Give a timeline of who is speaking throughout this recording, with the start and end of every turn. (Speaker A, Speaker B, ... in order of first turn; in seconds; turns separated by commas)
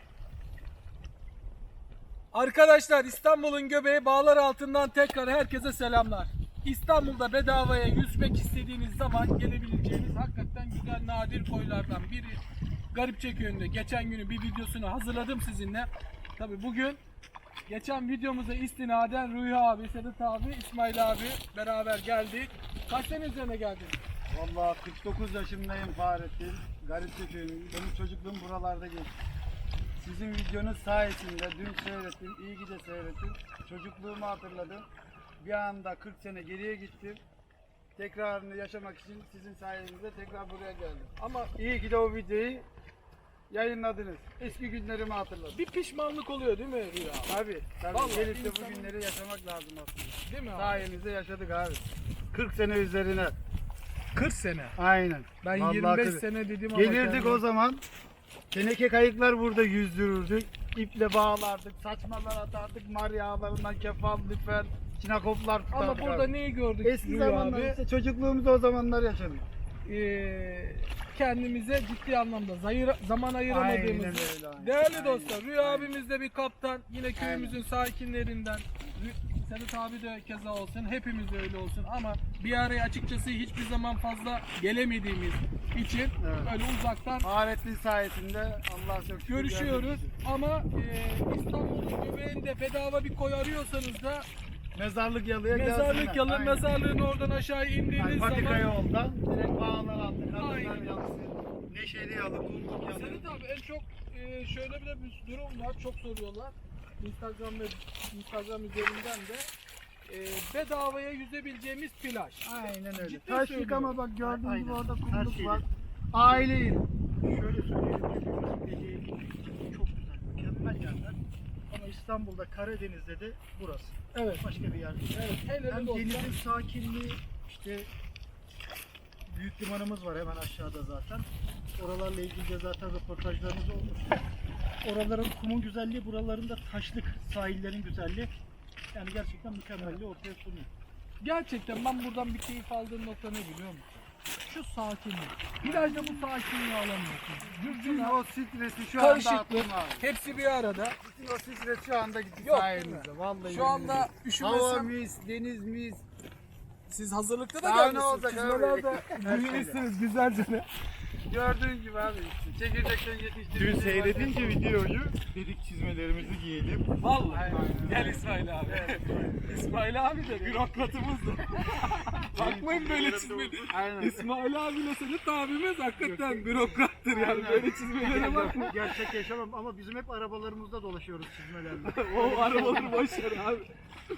Speaker A: 2.3-12.4, Speaker A: 12.9-17.0, Speaker A: 17.7-24.0, Speaker B: 24.3-29.1, Speaker B: 30.0-34.9, Speaker B: 35.4-37.2, Speaker B: 38.0-42.7, Speaker A: 41.2-41.5, Speaker B: 43.5-45.6, Speaker A: 45.5-47.4, Speaker B: 47.3-53.4, Speaker A: 47.9-48.9, Speaker A: 50.2-50.9, Speaker A: 54.1-54.8, Speaker B: 54.8-57.8, Speaker A: 55.4-57.4, Speaker B: 58.5-66.3, Speaker A: 65.7-67.8, Speaker B: 66.8-69.5, Speaker A: 69.8-87.3, Speaker B: 73.5-75.9, Speaker B: 77.2-77.6, Speaker B: 86.2-86.5, Speaker B: 87.2-90.1, Speaker A: 89.3-94.3, Speaker B: 94.8-96.7, Speaker A: 95.5-98.7, Speaker B: 98.0-103.2, Speaker A: 100.3-101.0, Speaker C: 101.7-102.2, Speaker A: 102.8-109.5, Speaker A: 110.1-114.0, Speaker B: 112.4-116.8, Speaker C: 114.2-115.6, Speaker D: 115.3-115.7, Speaker C: 116.2-116.5, Speaker C: 117.2-121.2, Speaker C: 121.7-127.9, Speaker A: 124.1-124.4, Speaker A: 125.1-126.3, Speaker C: 129.3-131.3, Speaker C: 131.8-134.2, Speaker C: 134.8-138.3, Speaker C: 138.9-140.7, Speaker A: 141.2-148.2, Speaker B: 145.6-146.0, Speaker C: 145.8-146.2, Speaker B: 147.6-150.1, Speaker A: 149.0-151.0, Speaker B: 151.0-156.0, Speaker A: 152.4-154.9, Speaker A: 156.9-160.7, Speaker B: 157.6-159.8, Speaker B: 161.3-164.7, Speaker D: 163.5-166.9, Speaker A: 167.0-179.0, Speaker B: 167.3-169.5, Speaker C: 167.5-168.2, Speaker B: 172.3-174.2, Speaker D: 173.0-173.3, Speaker C: 176.0-183.2, Speaker A: 181.8-183.7